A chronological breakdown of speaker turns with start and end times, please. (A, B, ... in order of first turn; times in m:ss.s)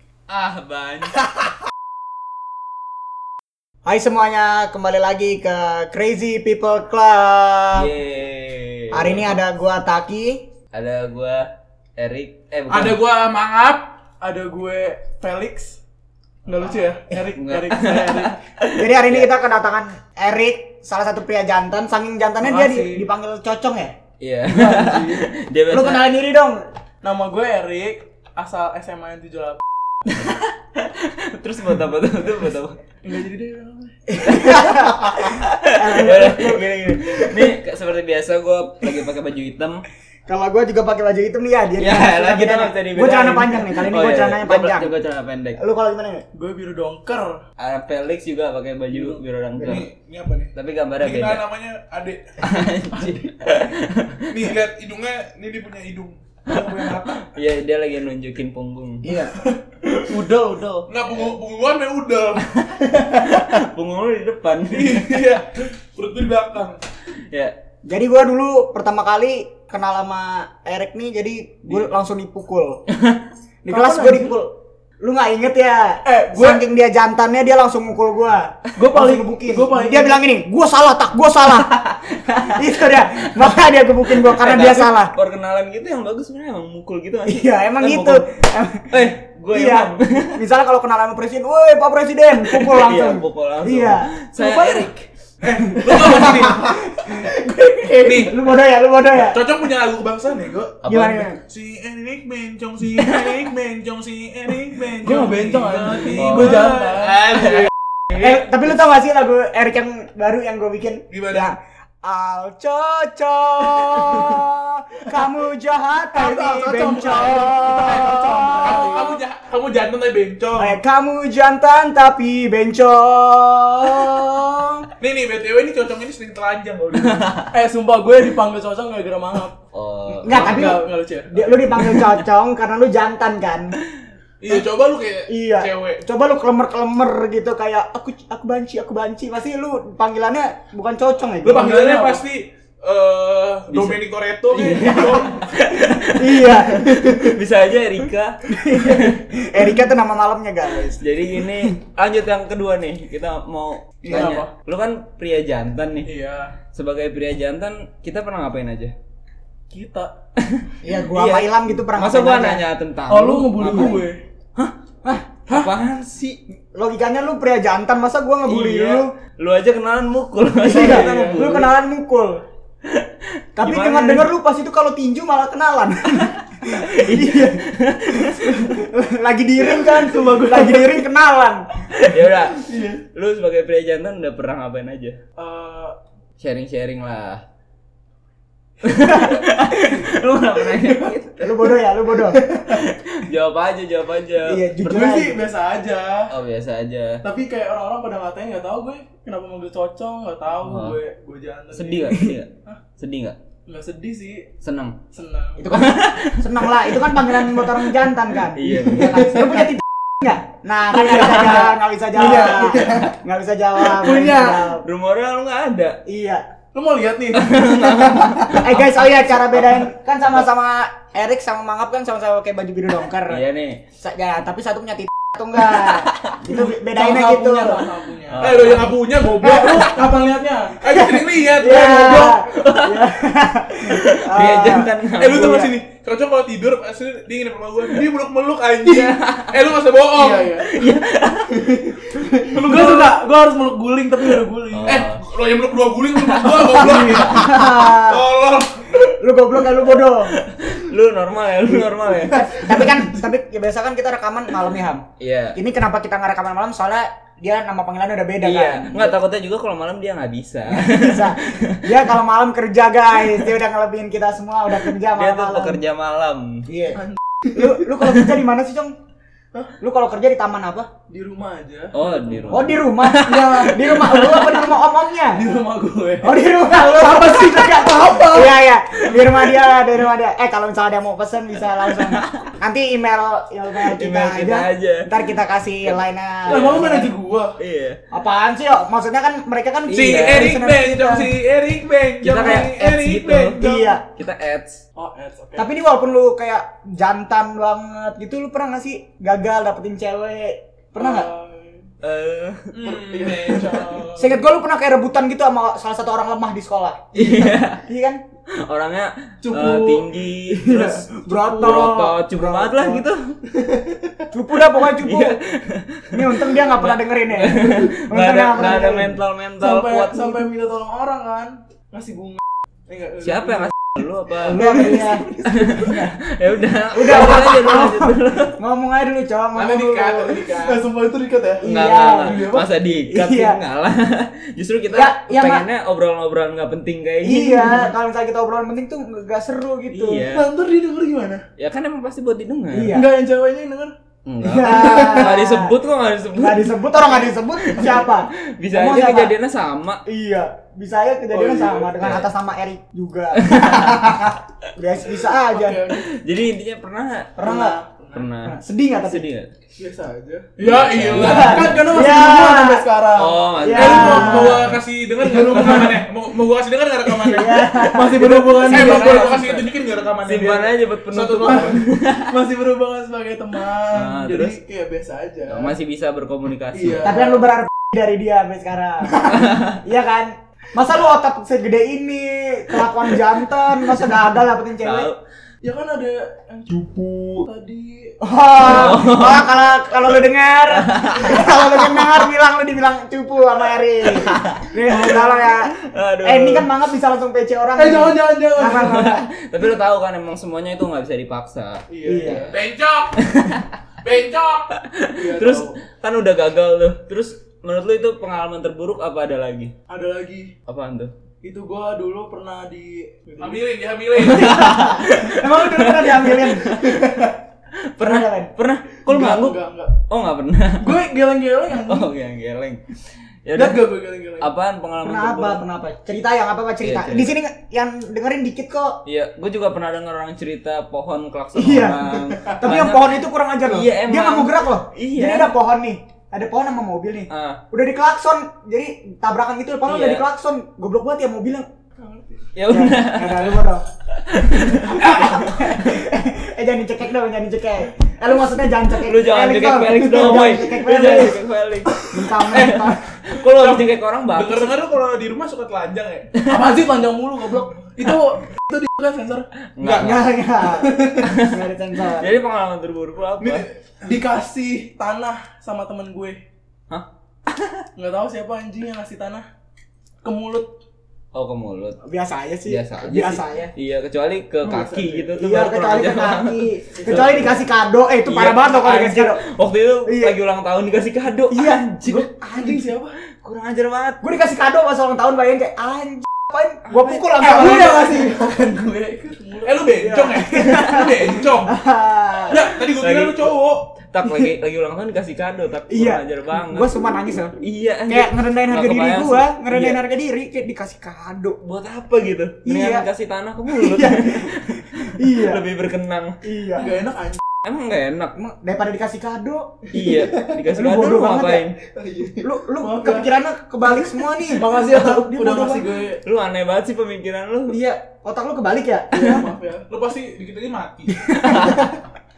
0:00.3-0:01.2 A
0:03.8-0:07.9 B
0:07.7-0:09.4 A
0:08.9-0:10.4 B
0:10.7-0:13.0 A
0:12.7-0:13.9 C
0:14.2-0:15.8 D
0:16.4-0:18.4 D
0:17.3-0:19.3 A
0:18.7-0:23.9 B
0:22.4-0:23.1 D
0:24.2-0:26.2 A
0:24.5-0:25.3 D
0:25.7-0:26.6 B
0:27.0-0:29.6 D
0:30.1-0:32.8 A
0:33.0-0:33.9 D
0:34.1-0:37.5 B
0:34.2-0:39.9 A
0:40.3-0:44.9 B
0:41.8-0:45.6 A
0:45.6-0:46.2 B
0:46.3-0:47.4 D
0:47.6-0:49.9 A
0:48.9-0:49.2 D
0:49.6-0:52.5 C
0:50.5-0:51.4 A
0:52.4-0:54.5 A
0:52.9-0:53.3 D
0:54.3-0:57.2 C
0:56.5-0:59.0 A
0:59.0-0:59.3 B
0:59.0-1:00.9 D
1:00.9-1:02.5 C
1:02.7-1:05.4 A
1:04.7-1:06.8 C
1:07.3-1:07.5 A
1:07.8-1:12.8 B
1:12.9-1:13.2 A
1:13.6-1:21.8 B
1:13.7-1:14.4 D
1:16.0-1:16.6 D
1:18.8-1:20.2 D
1:21.6-1:23.5 A
1:22.5-1:25.1 B
1:24.1-1:28.2 A
1:27.2-1:34.8 B
1:28.9-1:30.4 A
1:32.4-1:35.1 A
1:34.4-1:34.8 D
1:35.4-1:36.7 C
1:35.5-1:39.7 B
1:35.9-1:36.4 D
1:37.8-1:38.1 D
1:38.0-1:38.4 C
1:39.2-1:40.9 C
1:40.8-1:41.3 A
1:40.8-1:41.4 B
1:41.4-1:47.7 C
1:42.9-1:43.5 A
1:45.0-1:47.3 D
1:46.1-1:47.7 A
1:48.1-1:59.0 B
1:51.1-1:51.5 C
1:56.1-1:59.2 D
1:57.9-2:00.8 C
2:00.5-2:04.9 B
2:05.0-2:07.4 C
2:07.1-2:07.5 A
2:07.5-2:09.5 D
2:09.7-2:10.7 A
2:10.2-2:13.8 B
2:10.2-2:11.8 D
2:14.4-2:16.0 C
2:15.3-2:21.7 B
2:21.4-2:25.5 C
2:21.5-2:22.2 D
2:23.7-2:24.0 A
2:24.5-2:29.2 A
2:24.7-2:25.1 B
2:26.1-2:27.0 B
2:28.5-2:31.0 B
2:31.0-2:36.1 A
2:34.0-2:34.5 D
2:36.0-2:36.6 D
2:36.7-2:38.9 A
2:39.7-2:40.1 D
2:40.4-2:44.0 A
2:40.8-2:42.6 B
2:43.1-2:44.2 D
2:45.0-2:45.3 B
2:45.5-2:46.4 A
2:46.7-2:49.1 B
2:48.4-2:51.7 A
2:50.6-2:52.4 B
2:50.6-2:51.5 D
2:52.8-2:54.3 A
2:53.6-3:01.9 B
2:56.2-2:58.7 A
2:59.6-3:01.0 D
3:01.9-3:05.2 A
3:02.5-3:03.0 D
3:05.4-3:06.0 D
3:06.4-3:07.4 A
3:08.8-3:11.6 A
3:11.4-3:12.4 B
3:12.6-3:15.1 A
3:14.4-3:15.4 B
3:14.9-3:16.3 D
3:16.3-3:17.2 A
3:17.2-3:22.1 D
3:20.6-3:21.0 A
3:21.7-3:23.4 A
3:23.7-3:24.5 D
3:24.6-3:25.0 A
3:25.1-3:25.7 D
3:25.6-3:34.8 B
3:25.7-3:27.8 A
3:28.5-3:29.4 A
3:28.9-3:29.7 D
3:31.1-3:33.1 D
3:31.2-3:31.6 A
3:33.8-3:34.7 D
3:34.8-3:36.0 A
3:36.1-3:36.4 B
3:36.7-3:37.9 D
3:37.4-3:39.1 A
3:37.9-3:43.4 B
3:43.3-3:43.8 A
3:44.0-3:47.9 B
3:45.8-3:46.3 A
3:46.5-3:48.7 D
3:48.3-3:48.9 A
3:48.4-3:50.1 C
3:49.4-3:50.8 D
3:49.5-3:49.8 B
3:50.8-3:52.4 C
3:50.9-3:55.7 B
3:52.5-3:53.1 A
3:53.8-3:55.6 A
3:55.2-4:00.5 C
3:58.9-3:59.6 A
4:00.2-4:00.7 D
4:00.6-4:02.0 A
4:01.5-4:05.0 D
4:02.5-4:03.1 C
4:04.7-4:05.2 A
4:04.8-4:09.1 C
4:06.2-4:07.5 A
4:06.5-4:08.3 B
4:06.7-4:07.4 D
4:09.2-4:10.3 B
4:10.2-4:12.5 A
4:12.2-4:19.2 B
4:15.2-4:15.6 A
4:18.4-4:21.9 A
4:20.8-4:25.8 B
4:25.1-4:26.7 A
4:26.7-4:27.0 B
4:26.9-4:27.8 D
4:27.5-4:28.9 B
4:29.8-4:30.9 B
4:31.1-4:32.7 D
4:31.9-4:34.5 A
4:32.5-4:35.4 B
4:33.2-4:34.5 D
4:35.3-4:38.6 D
4:36.2-4:47.1 B
4:42.0-4:42.5 A
4:43.8-4:45.1 A
4:46.4-4:47.6 D
4:47.6-4:48.0 A
4:48.1-4:51.4 B
4:49.9-4:53.9 C
4:52.2-4:54.8 A
4:52.8-4:54.1 B
4:55.0-4:55.7 D
4:55.6-5:01.3 B
5:01.0-5:01.9 D
5:02.0-5:02.7 A
5:02.7-5:04.4 C
5:02.8-5:04.1 D
5:04.1-5:08.2 B
5:07.1-5:07.8 A
5:08.6-5:13.4 A
5:09.4-5:10.1 D
5:10.5-5:13.0 B
5:11.5-5:11.8 D
5:13.5-5:14.1 D
5:14.3-5:15.5 B
5:14.8-5:20.4 A
5:16.1-5:19.1 B
5:19.6-5:23.7 D
5:23.2-5:28.6 A
5:24.4-5:26.1 B
5:24.7-5:25.1 D
5:26.9-5:30.4 B
5:29.5-5:30.8 C
5:30.5-5:32.6 D
5:31.6-5:32.5 B
5:31.6-5:37.9 A
5:33.1-5:33.6 B
5:34.9-5:35.6 B
5:37.2-5:40.3 B
5:39.9-5:40.5 A
5:40.3-5:41.4 D
5:41.6-5:43.0 A
5:42.7-5:43.1 B
5:42.9-5:43.9 D
5:44.2-5:50.0 A
5:44.4-5:45.8 B
5:46.3-5:49.3 B
5:47.8-5:48.0 D
5:50.1-5:55.8 B
5:51.3-5:52.2 D
5:52.0-5:52.3 A
5:53.4-5:54.2 A
5:55.5-5:56.0 D
5:56.0-5:57.5 A
5:57.4-5:57.8 B
5:57.4-5:58.3 D
5:58.1-5:59.5 A
5:58.4-5:59.2 B
5:59.8-6:06.0 D
6:00.6-6:01.8 C
6:00.6-6:01.9 A
6:01.2-6:02.8 B
6:03.1-6:04.1 A
6:03.6-6:04.7 B
6:03.8-6:07.7 C
6:05.4-6:05.9 A
6:07.1-6:09.1 B
6:07.4-6:09.7 A
6:07.9-6:09.6 D
6:08.6-6:11.8 C
6:10.2-6:12.3 A
6:11.4-6:15.7 D
6:13.9-6:14.6 A
6:15.5-6:17.1 A
6:16.7-6:17.5 D
6:17.0-6:25.1 B
6:19.3-6:19.8 A
6:24.8-6:25.2 A
6:25.6-6:26.7 D
6:26.7-6:27.5 C
6:27.4-6:28.2 D
6:28.2-6:39.3 B
6:28.6-6:29.5 A
6:30.7-6:32.3 A
6:34.2-6:34.7 A
6:34.9-6:35.5 D
6:35.6-6:36.7 A
6:37.7-6:39.2 D
6:38.8-6:42.6 A
6:41.9-6:42.5 D
6:42.0-6:42.5 B
6:42.5-6:43.2 C
6:43.1-6:43.7 A
6:44.0-6:44.7 C
6:44.7-6:49.7 A
6:45.2-6:45.8 D
6:49.9-6:50.5 D
6:50.7-6:51.1 A
6:51.4-6:53.6 D
6:53.4-6:54.8 C
6:54.2-6:57.3 A
6:54.3-6:56.8 B
6:56.9-6:57.3 D
6:57.9-7:01.0 A
6:58.0-6:58.5 B
6:59.1-7:00.0 D
7:00.8-7:02.1 D
7:01.7-7:02.8 A
7:03.4-7:03.8 A
7:03.5-7:04.5 D
7:04.4-7:05.6 A
7:05.0-7:09.0 B
7:06.8-7:07.3 A
7:09.0-7:15.5 A
7:11.5-7:21.6 B
7:17.3-7:17.6 A
7:19.8-7:20.2 A
7:22.0-7:22.4 D
7:22.5-7:26.0 A
7:22.7-7:23.8 B
7:24.6-7:31.4 B
7:25.1-7:25.4 C
7:29.1-7:32.0 A
7:32.0-7:33.0 B
7:32.5-7:32.8 C
7:32.5-7:34.8 A
7:33.4-7:36.4 C
7:36.4-7:39.5 D
7:39.8-7:40.3 A
7:39.8-7:42.3 B
7:40.8-7:41.3 D
7:41.2-7:41.6 A
7:42.2-7:43.6 A
7:43.4-7:43.7 C
7:44.0-7:46.4 D
7:46.9-7:47.8 A
7:48.0-7:49.4 D
7:50.2-7:50.7 D
7:51.3-7:52.0 A
7:52.0-7:53.7 B
7:52.6-7:57.6 A
7:54.6-7:55.3 D
7:55.3-7:59.4 B
7:57.0-7:57.3 D
7:58.2-8:02.3 A
8:00.1-8:00.3 B
8:01.5-8:02.8 B
8:02.5-8:03.2 D
8:03.3-8:04.2 A
8:04.2-8:08.3 B
8:06.9-8:07.9 A
8:07.4-8:09.9 D
8:09.6-8:11.7 C
8:09.9-8:12.7 B
8:12.4-8:13.9 C
8:13.0-8:13.5 A
8:14.1-8:16.9 A
8:15.9-8:17.6 B
8:17.6-8:20.0 A
8:18.1-8:21.6 B
8:21.6-8:26.4 A
8:22.6-8:23.0 B
8:23.7-8:25.6 B
8:26.4-8:26.9 B
8:26.8-8:27.4 D
8:27.6-8:28.3 A
8:28.4-8:29.8 B
8:29.9-8:31.8 A
8:30.7-8:31.6 B
8:31.9-8:33.3 D
8:32.4-8:35.7 B
8:34.5-8:36.2 D
8:34.9-8:37.8 A
8:37.7-8:39.4 B
8:39.1-8:39.9 D
8:39.9-8:41.3 C
8:41.2-8:42.0 B
8:41.3-8:41.8 A